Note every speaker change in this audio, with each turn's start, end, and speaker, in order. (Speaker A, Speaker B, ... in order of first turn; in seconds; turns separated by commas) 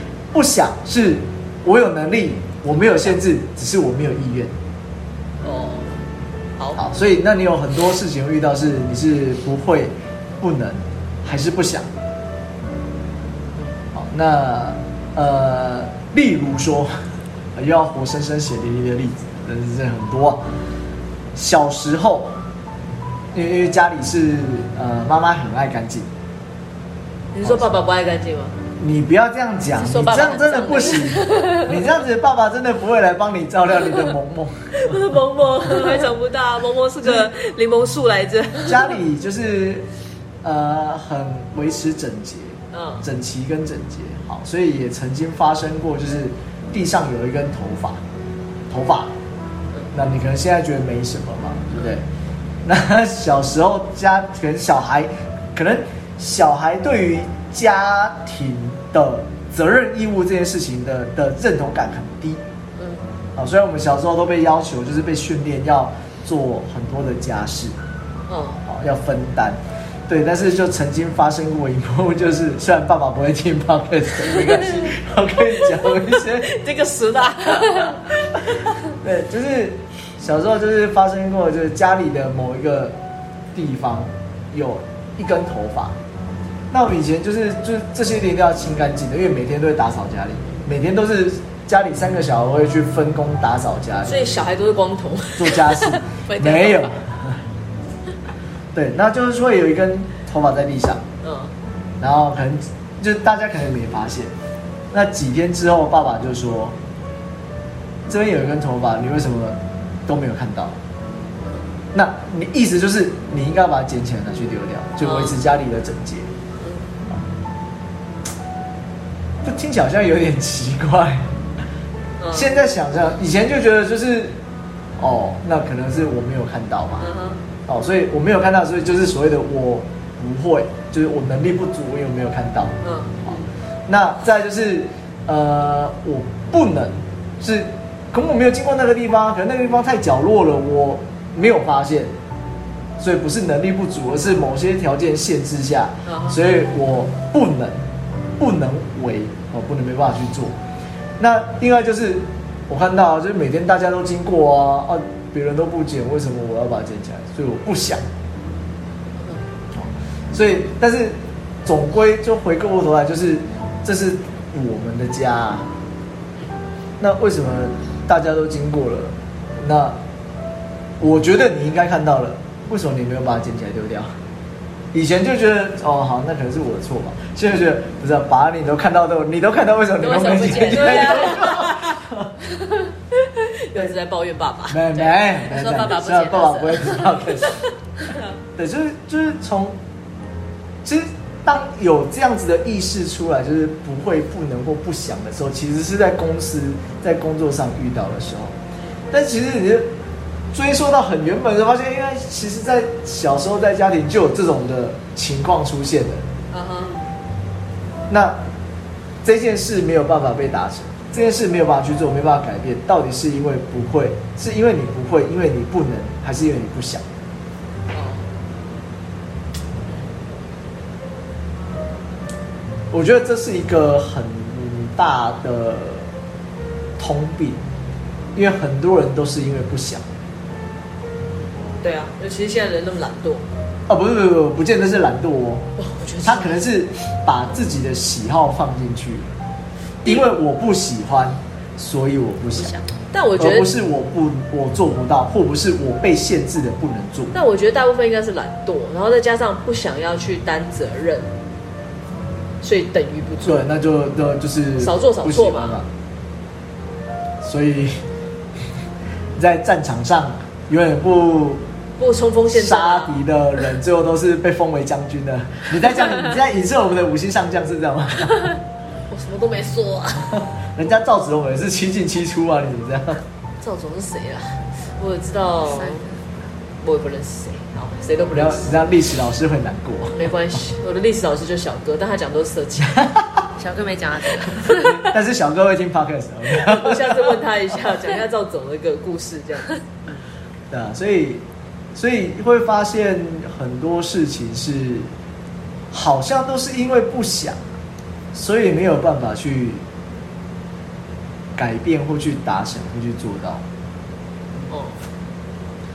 Speaker A: 0.3-4.5, Speaker B: 2.8-3.1, Speaker B: 5.4-6.0, Speaker A: 6.8-11.9, Speaker A: 13.9-17.0, Speaker A: 17.6-20.4, Speaker A: 21.3-22.4, Speaker A: 23.3-26.1, Speaker B: 27.3-28.6, Speaker A: 27.4-27.7, Speaker A: 28.8-35.0, Speaker C: 29.8-31.7, Speaker B: 34.7-38.8, Speaker A: 38.6-39.9, Speaker A: 40.4-48.0, Speaker B: 42.7-43.0, Speaker A: 48.7-49.1, Speaker A: 49.9-52.0, Speaker B: 51.7-52.0, Speaker A: 52.6-62.4, Speaker A: 63.4-67.8, Speaker B: 68.3-68.7, Speaker A: 68.7-76.5, Speaker B: 76.4-78.6, Speaker A: 79.0-83.0, Speaker A: 83.5-85.9, Speaker A: 86.7-94.2, Speaker B: 94.0-95.8, Speaker A: 95.4-97.4, Speaker C: 96.0-96.9, Speaker A: 98.7-101.0, Speaker B: 101.2-101.5, Speaker A: 102.0-104.3, Speaker A: 104.9-106.8, Speaker A: 108.1-110.8, Speaker A: 111.9-116.3, Speaker B: 115.0-115.4, Speaker B: 116.6-116.9, Speaker A: 119.4-121.3, Speaker B: 122.2-122.6, Speaker A: 122.3-124.4, Speaker A: 125.0-127.1, Speaker B: 127.0-127.4, Speaker A: 127.7-142.1, Speaker B: 132.8-133.4, Speaker A: 143.0-147.8, Speaker B: 146.1-146.4, Speaker A: 148.4-150.6, Speaker A: 151.2-158.0, Speaker A: 159.7-165.7, Speaker A: 167.0-170.0, Speaker A: 171.0-174.1, Speaker A: 174.9-182.3, Speaker C: 180.0-181.6, Speaker B: 180.5-181.9, Speaker B: 183.1-184.8, Speaker A: 184.7-187.6, Speaker C: 184.9-187.3, Speaker B: 188.1-188.3, Speaker A: 188.6-189.8, Speaker A: 190.8-198.6, Speaker A: 199.1-199.9, Speaker A: 200.5-206.2, Speaker B: 206.5-207.1, Speaker A: 208.1-208.4, Speaker A: 209.2-217.0, Speaker B: 217.9-218.3, Speaker A: 222.9-226.1, Speaker A: 227.0-227.6, Speaker A: 228.3-230.1, Speaker B: 231.8-233.4, Speaker A: 233.9-235.7, Speaker B: 235.8-236.6, Speaker A: 236.2-239.3, Speaker A: 240.0-242.8, Speaker B: 243.1-243.7, Speaker A: 243.4-247.3, Speaker B: 247.3-251.3, Speaker B: 252.6-253.7, Speaker A: 253.4-255.9, Speaker B: 254.8-255.8, Speaker A: 257.4-258.0, Speaker A: 259.4-261.6, Speaker B: 262.0-263.2, Speaker A: 262.5-268.6, Speaker B: 269.1-270.4, Speaker A: 270.8-273.2, Speaker B: 273.6-276.1, Speaker C: 275.8-276.1, Speaker B: 276.8-278.8, Speaker A: 278.3-280.2, Speaker B: 280.1-283.1, Speaker C: 283.6-285.0, Speaker A: 284.7-287.4, Speaker B: 286.5-289.8, Speaker A: 290.7-291.4, Speaker A: 291.9-295.1, Speaker A: 295.9-297.6, Speaker A: 298.3-299.8, Speaker A: 301.6-303.6, Speaker B: 304.7-305.0